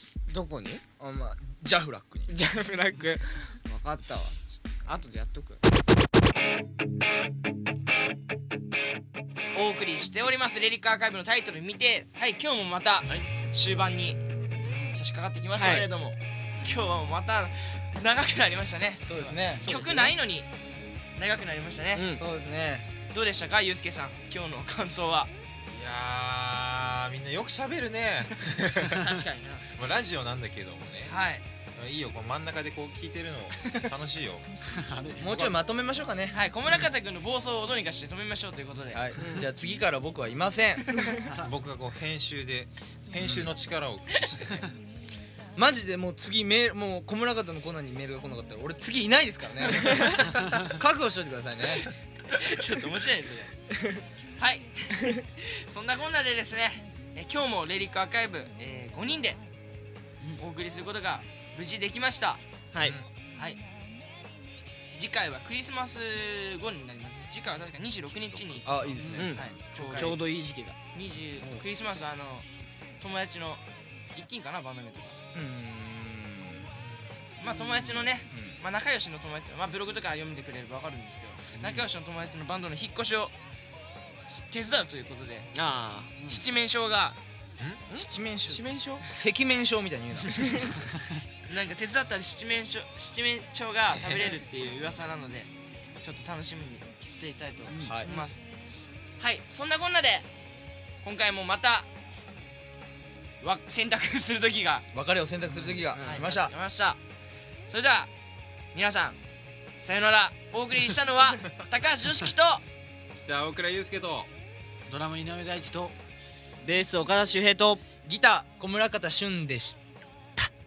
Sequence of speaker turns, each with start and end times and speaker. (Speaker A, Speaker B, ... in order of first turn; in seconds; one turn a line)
Speaker A: 0.3-0.8
Speaker B: 1.0-2.3
Speaker A: 2.3-5.6
Speaker C: 9.5-14.2
Speaker D: 14.7-14.9
Speaker C: 14.9-20.5
Speaker A: 15.6-15.9
Speaker B: 19.1-19.7
Speaker D: 19.2-20.1
Speaker A: 19.6-20.1
Speaker C: 21.2-22.1
Speaker A: 21.9-22.2
Speaker B: 22.2-22.9
Speaker C: 23.1-25.3
Speaker E: 25.7-29.2
Speaker A: 28.9-29.6
Speaker E: 29.7-31.2
Speaker C: 31.1-31.4
Speaker E: 31.8-34.5
Speaker D: 34.7-35.6
Speaker B: 35.2-36.4
Speaker C: 36.3-39.0
Speaker B: 38.9-40.9
Speaker A: 39.2-39.5
Speaker D: 41.2-41.5
Speaker E: 41.4-44.8
Speaker B: 43.2-43.5
Speaker B: 45.6-51.9
Speaker C: 52.3-53.5
Speaker C: 54.4-59.4
Speaker C: 60.4-62.4
Speaker A: 62.7-63.0
Speaker C: 63.3-63.6
Speaker C: 65.0-68.7
Speaker E: 68.3-69.1
Speaker B: 68.6-69.5
Speaker A: 69.2-70.8
Speaker C: 69.2-70.2
Speaker C: 70.9-72.5
Speaker C: 73.0-73.6
Speaker C: 74.2-75.2
Speaker B: 75.3-76.7
Speaker E: 76.7-77.2
Speaker C: 77.4-83.3
Speaker D: 77.5-78.0
Speaker B: 78.3-78.6
Speaker D: 81.5-81.9
Speaker C: 84.3-85.5
Speaker A: 85.5-86.1
Speaker C: 86.2-87.2
Speaker A: 87.9-89.0
Speaker B: 87.9-90.6
Speaker C: 91.5-95.5
Speaker E: 94.0-94.2
Speaker C: 96.0-98.4
Speaker D: 97.7-98.0
Speaker B: 97.8-98.1
Speaker C: 99.2-100.3
Speaker C: 101.0-101.9
Speaker C: 103.4-104.8
Speaker B: 104.9-106.5
Speaker A: 105.9-106.3
Speaker C: 106.0-107.0
Speaker C: 107.7-108.1
Speaker C: 108.7-109.2
Speaker C: 109.8-112.6
Speaker E: 113.2-114.3
Speaker D: 114.9-116.0
Speaker A: 116.6-117.8
Speaker B: 118.0-119.8